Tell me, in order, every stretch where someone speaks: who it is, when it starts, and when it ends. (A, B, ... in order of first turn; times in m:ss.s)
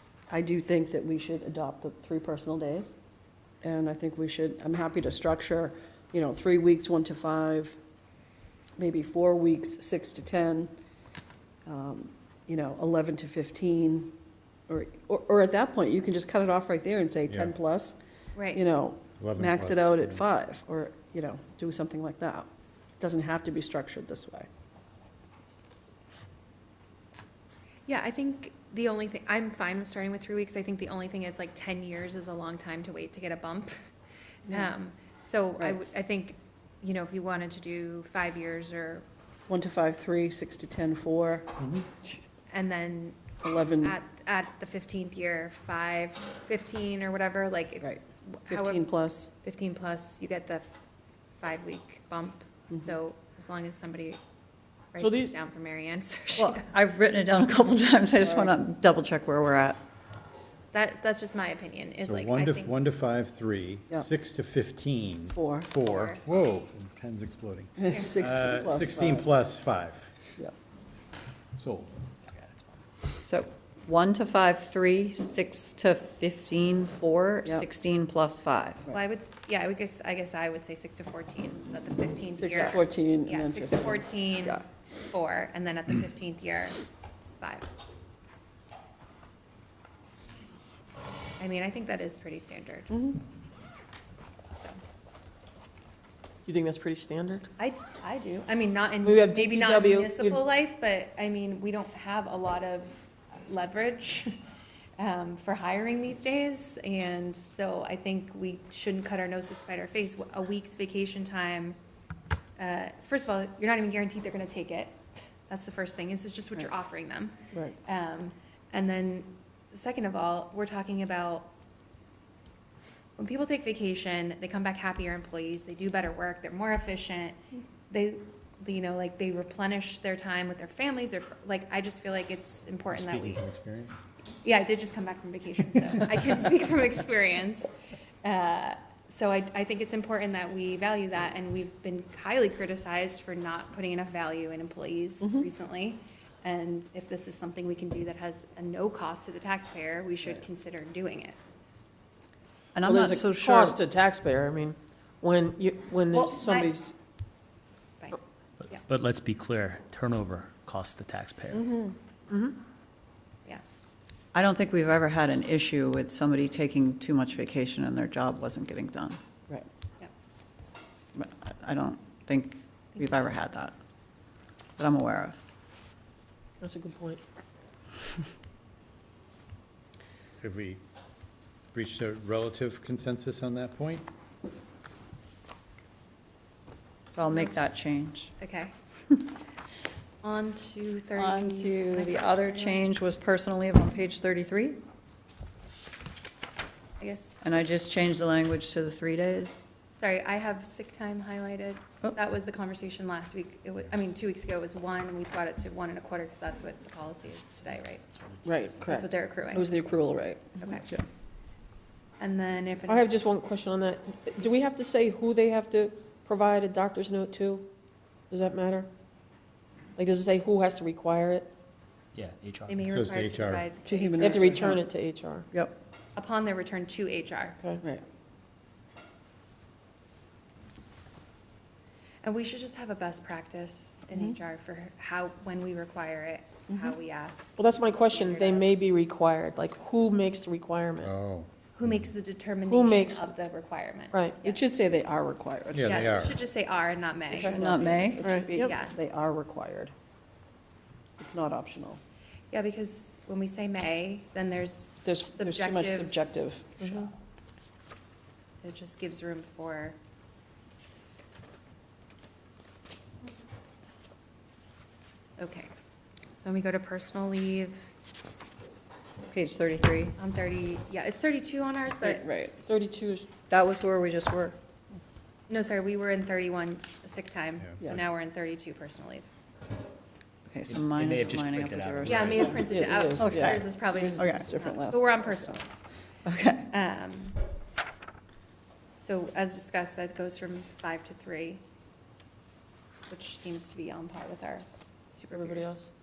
0:00.3-0:03.0 A
0:03.6-0:07.8 A
0:08.8-0:10.7 A
0:11.7-0:14.1 A
0:14.7-0:18.0 A
0:18.4-0:18.6 B
0:18.5-0:22.5 A
0:19.2-0:20.2 C
0:23.0-0:24.5 A
0:27.9-0:33.8 B
0:34.5-0:39.0 B
0:39.5-0:41.6 A
0:41.6-0:41.8 C
0:42.5-0:48.9 B
0:43.4-0:44.0 A
0:47.8-0:49.3 A
0:49.4-0:50.7 B
0:51.4-0:54.2 B
0:54.9-0:56.6 B
0:55.0-0:55.4 D
0:56.4-0:59.8 E
0:58.2-0:58.5 A
1:00.7-1:02.7 B
1:02.0-1:10.1 C
1:05.4-1:05.7 A
1:05.7-1:06.2 B
1:07.8-1:09.3 A
1:07.9-1:08.2 B
1:11.6-1:11.9 C
1:12.3-1:12.6 F
1:13.2-1:18.8 E
1:18.9-1:26.8 B
1:22.4-1:24.1 A
1:22.5-1:22.8 E
1:27.4-1:27.7 B
1:31.4-1:32.9 B
1:32.9-1:33.2 A
1:36.5-1:37.5 D
1:37.6-1:44.3 B
1:39.0-1:40.4 D
1:45.0-1:51.8 B
1:52.6-2:01.5 B
2:03.2-2:07.4 B
2:07.9-2:13.4 B
2:12.9-2:14.0 C
2:14.4-2:17.7 B
2:18.2-2:31.4 B
2:25.2-2:25.5 A
2:32.8-2:33.8 E
2:32.8-2:36.9 D
2:36.1-2:36.8 B
2:38.0-2:38.9 B
2:38.6-2:41.7 F
2:41.6-2:41.9 A
2:42.3-2:42.6 D
2:44.3-2:49.2 E
2:51.2-2:53.8 E
2:54.8-2:55.4 E
2:56.6-2:57.2 D
3:00.4-3:00.8 C
3:01.7-3:04.1 C
3:07.1-3:08.3 E
3:07.2-3:07.6 B
3:08.4-3:08.7 B
3:10.2-3:12.9 B
3:11.2-3:14.8 E
3:17.0-3:17.5 B
3:17.4-3:19.6 E
3:20.0-3:28.1 B
3:28.4-3:29.1 D
3:28.8-3:29.7 B
3:29.5-3:31.0 A
3:30.6-3:31.0 B
3:32.2-3:33.2 B
3:32.9-3:37.7 D
3:38.3-3:38.9 D
3:40.0-3:41.5 D
3:42.2-3:42.9 F
3:42.7-3:44.7 B
3:42.9-3:43.7 C
3:43.8-3:44.8 A
3:44.2-3:45.5 D
3:46.2-3:47.6 B
3:52.2-3:58.8 B
3:57.6-4:01.1 D
4:01.0-4:02.0 C
4:01.8-4:04.6 B
4:02.6-4:03.3 D
4:04.1-4:04.4 D
4:04.4-4:06.0 A
4:05.7-4:06.4 C
4:05.9-4:07.6 B
4:07.3-4:09.9 A
4:07.4-4:08.2 E
4:08.2-4:08.7 D
4:08.6-4:08.9 B
4:11.2-4:12.0 A
4:12.5-4:16.2 B
4:15.0-4:17.1 A
4:16.8-4:17.1 D
4:18.6-4:20.0 B
4:25.4-4:25.7 B
4:26.4-4:27.9 B
4:29.3-4:30.2 E
4:30.2-4:32.3 B
4:32.1-4:33.3 D
4:32.3-4:32.5 A
4:33.5-4:34.6 E
4:35.5-4:39.3 B
4:37.6-4:38.0 C
4:40.5-4:42.4 E
4:40.6-4:42.8 F
4:42.0-4:45.7 B
4:42.4-4:45.6 A
4:42.7-4:43.6 D
4:43.2-4:44.4 E
4:46.2-4:46.7 E
4:46.7-4:47.4 B
4:49.0-4:51.6 B
4:53.1-4:55.8 B
4:55.3-4:55.9 D